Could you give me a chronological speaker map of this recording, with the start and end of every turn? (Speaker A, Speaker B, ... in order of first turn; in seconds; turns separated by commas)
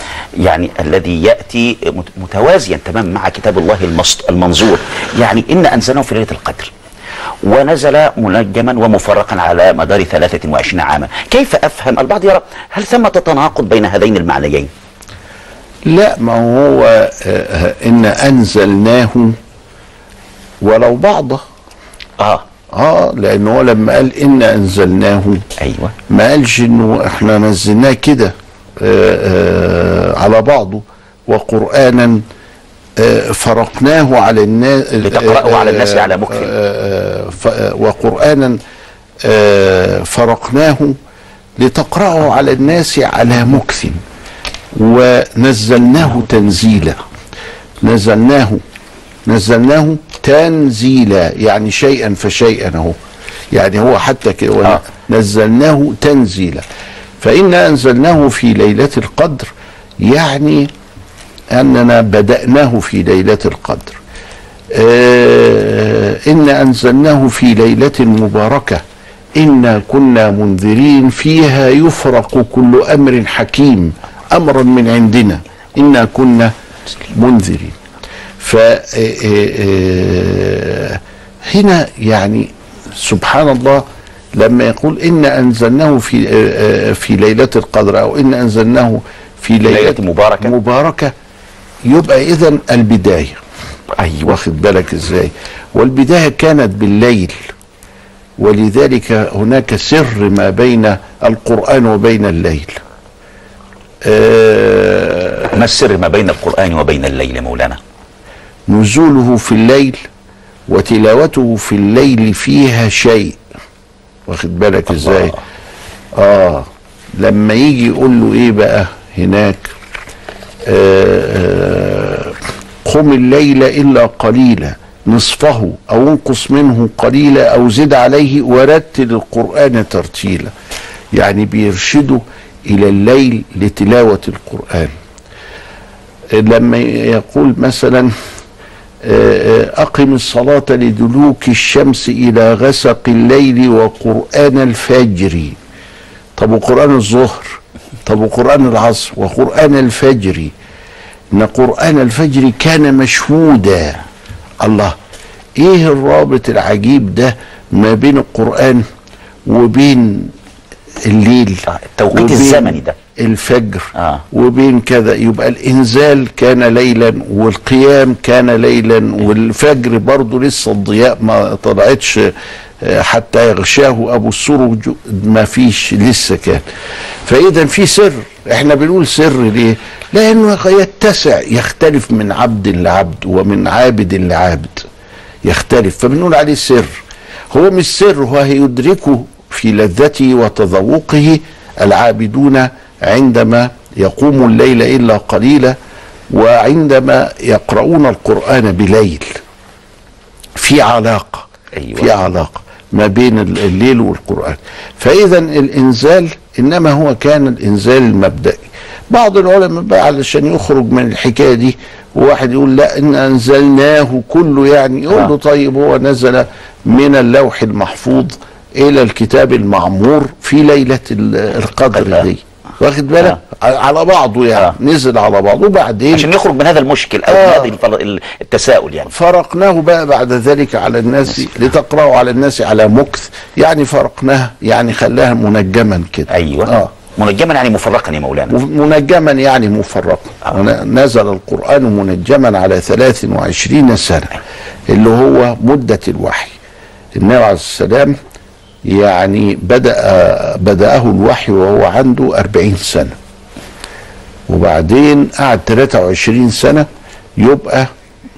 Speaker A: 0.4-6.7, Speaker A: 7.4-14.7, Speaker B: 15.8-19.3, Speaker B: 20.6-21.4, Speaker B: 22.7-25.4, Speaker A: 25.6-25.9, Speaker B: 26.1-32.2, Speaker B: 33.0-38.6, Speaker A: 35.0-36.5, Speaker B: 39.2-40.9, Speaker B: 41.6-44.0, Speaker B: 44.8-47.0, Speaker B: 47.8-48.6, Speaker B: 49.3-52.9, Speaker B: 53.5-56.6, Speaker B: 57.2-59.5, Speaker B: 60.0-60.7, Speaker B: 61.5-64.0, Speaker B: 64.7-68.8, Speaker B: 69.4-76.5, Speaker B: 77.1-77.8, Speaker B: 78.4-81.0, Speaker B: 81.5-83.8, Speaker B: 84.3-91.1, Speaker A: 89.6-90.5, Speaker B: 91.9-93.4, Speaker A: 94.0-94.3, Speaker B: 94.2-97.4, Speaker B: 98.4-102.8, Speaker B: 104.0-105.5, Speaker A: 105.5-107.8, Speaker B: 108.7-110.0, Speaker B: 110.7-113.4, Speaker B: 114.3-115.4, Speaker B: 116.2-119.7, Speaker B: 120.7-130.5, Speaker B: 131.1-134.9, Speaker B: 136.3-138.1, Speaker B: 139.0-145.6, Speaker B: 146.4-150.5, Speaker B: 151.3-154.0, Speaker B: 154.6-154.9, Speaker B: 155.6-158.8, Speaker B: 159.4-160.3, Speaker B: 161.0-176.6, Speaker A: 161.7-162.9, Speaker A: 163.9-164.2, Speaker B: 177.2-184.8, Speaker B: 185.4-187.0, Speaker B: 187.5-195.8, Speaker B: 196.3-199.4, Speaker B: 200.6-226.3, Speaker A: 201.7-202.2, Speaker A: 221.9-222.2, Speaker A: 226.1-229.1, Speaker B: 227.3-227.7, Speaker B: 229.1-236.9, Speaker A: 236.3-238.5, Speaker B: 238.5-244.4, Speaker B: 244.9-246.5, Speaker B: 247.2-248.1, Speaker B: 248.9-253.1, Speaker B: 254.5-256.9, Speaker B: 257.4-257.9